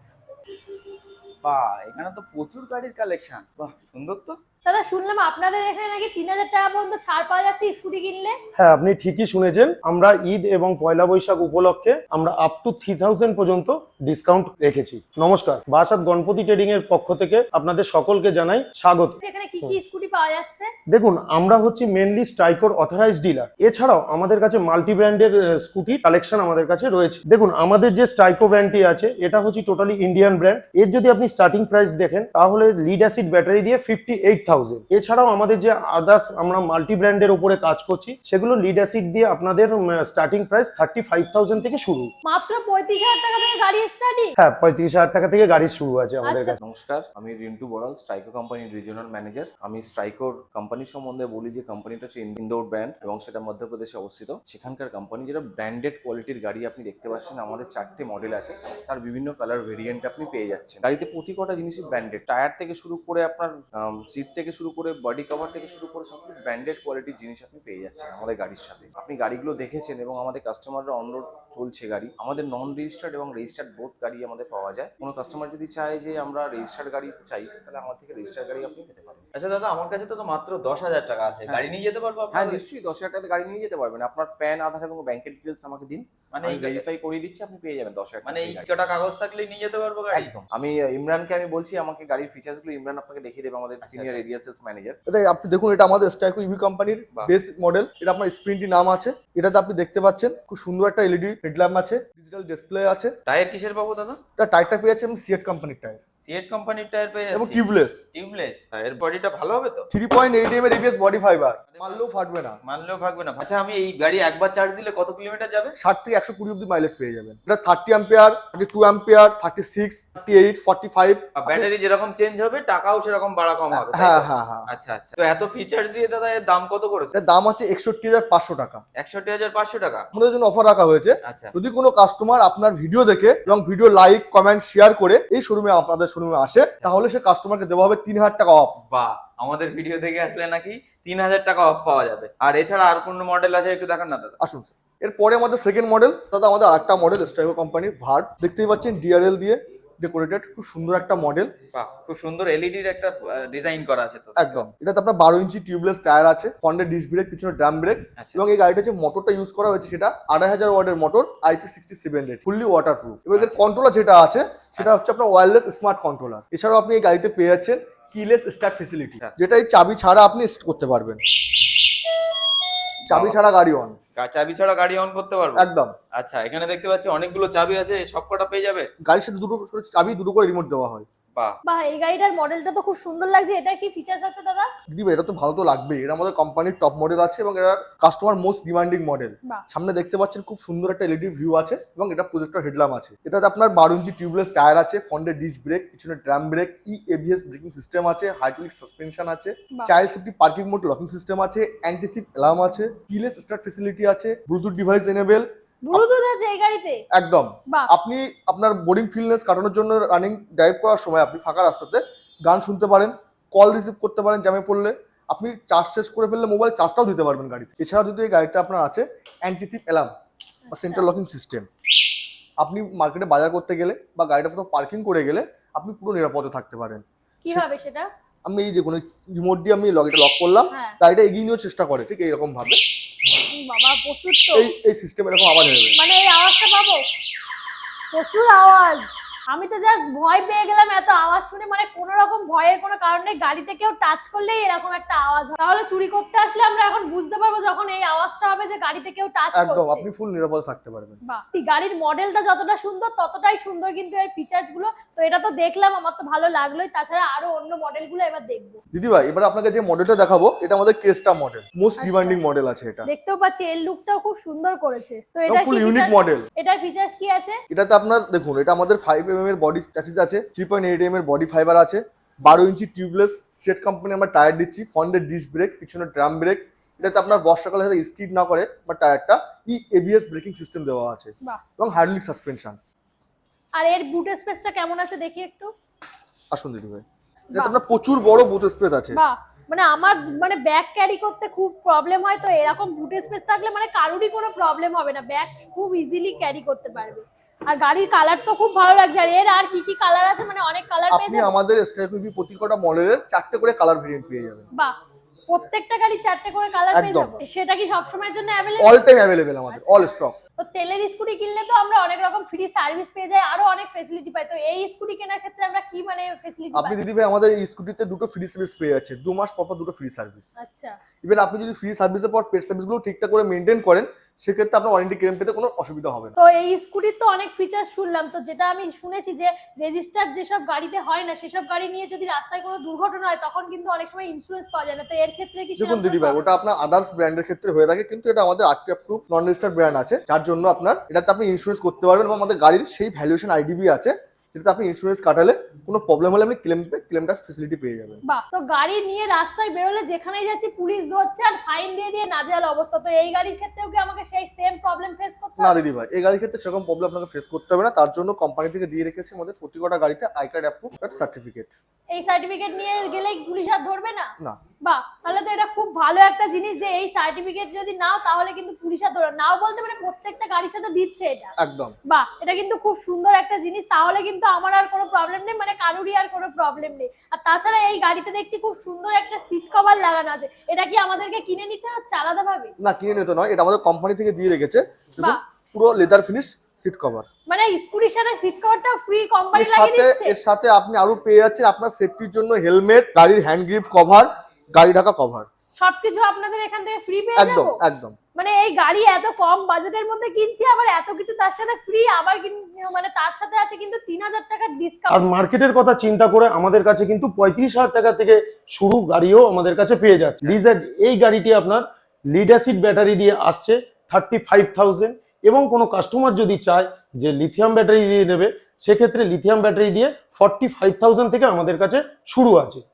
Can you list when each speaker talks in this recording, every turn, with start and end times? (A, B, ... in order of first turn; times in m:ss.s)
0:01.4-0:04.4 A
0:04.7-0:08.4 B
0:08.6-0:19.8 C
0:19.2-0:20.7 B
0:20.9-0:42.1 C
0:42.3-0:44.3 B
0:44.4-0:46.6 C
0:46.2-0:46.6 B
0:46.6-1:19.2 D
1:19.3-1:22.6 A
1:22.3-1:28.7 D
1:26.3-1:26.9 A
1:28.2-1:30.3 A
1:30.1-1:35.0 D
1:33.8-1:34.2 A
1:35.1-1:43.2 E
1:43.3-1:44.2 A
1:44.4-1:46.0 E
1:46.2-1:47.6 A
1:47.3-1:48.0 E
1:48.1-1:49.9 A
1:49.9-1:52.6 E
1:51.7-1:52.0 A
1:52.7-1:55.7 A
1:55.8-2:01.7 E
2:01.4-2:07.1 A
2:03.7-2:04.7 E
2:07.2-2:08.8 E
2:09.0-2:10.1 A
2:10.1-2:18.8 E
2:11.3-2:11.5 A
2:18.9-2:24.4 A
2:24.4-2:31.5 E
2:31.7-2:34.7 A
2:34.4-2:51.2 E
2:38.2-2:38.4 A
2:53.1-2:53.4 A
2:53.1-2:54.0 E
2:54.2-2:58.9 A
2:55.6-2:55.9 E
2:59.0-3:01.1 E
3:01.7-3:04.7 B
3:04.9-3:26.1 E
3:25.8-3:27.0 B
3:27.1-3:40.1 E
3:40.7-3:41.1 B
3:40.7-3:41.7 E
3:42.6-3:47.6 E
3:47.4-3:48.1 B
3:48.4-3:52.8 E
3:53.5-3:54.6 B
3:54.6-3:56.0 E
3:56.0-3:57.0 B
3:58.1-4:10.0 B
4:09.6-4:11.2 E
4:11.2-4:18.8 B
4:18.9-4:23.1 E
4:22.0-4:22.4 B
4:23.1-4:27.6 B
4:25.5-4:26.5 E
4:27.7-4:42.8 E
4:37.0-4:37.4 B
4:43.8-4:45.7 B
4:46.5-4:47.0 E
4:47.6-4:49.2 E
4:49.1-5:01.5 B
5:01.1-5:04.7 E
5:05.5-5:09.0 B
5:06.9-5:07.4 E
5:08.8-5:10.4 E
5:09.7-5:17.0 B
5:16.7-5:20.5 E
5:20.6-5:21.0 B
5:21.2-5:26.4 E
5:26.4-5:36.4 B
5:35.8-5:48.2 E
5:48.3-5:55.8 B
5:55.6-6:01.7 E
6:02.1-6:04.3 B
6:04.8-6:11.5 B
6:11.6-6:12.0 E
6:12.1-6:22.7 B
6:22.8-6:27.3 E
6:27.5-6:30.4 B
6:29.5-6:35.5 E
6:35.8-6:37.7 B
6:37.4-6:38.2 E
6:38.4-6:45.3 B
6:45.1-7:02.8 C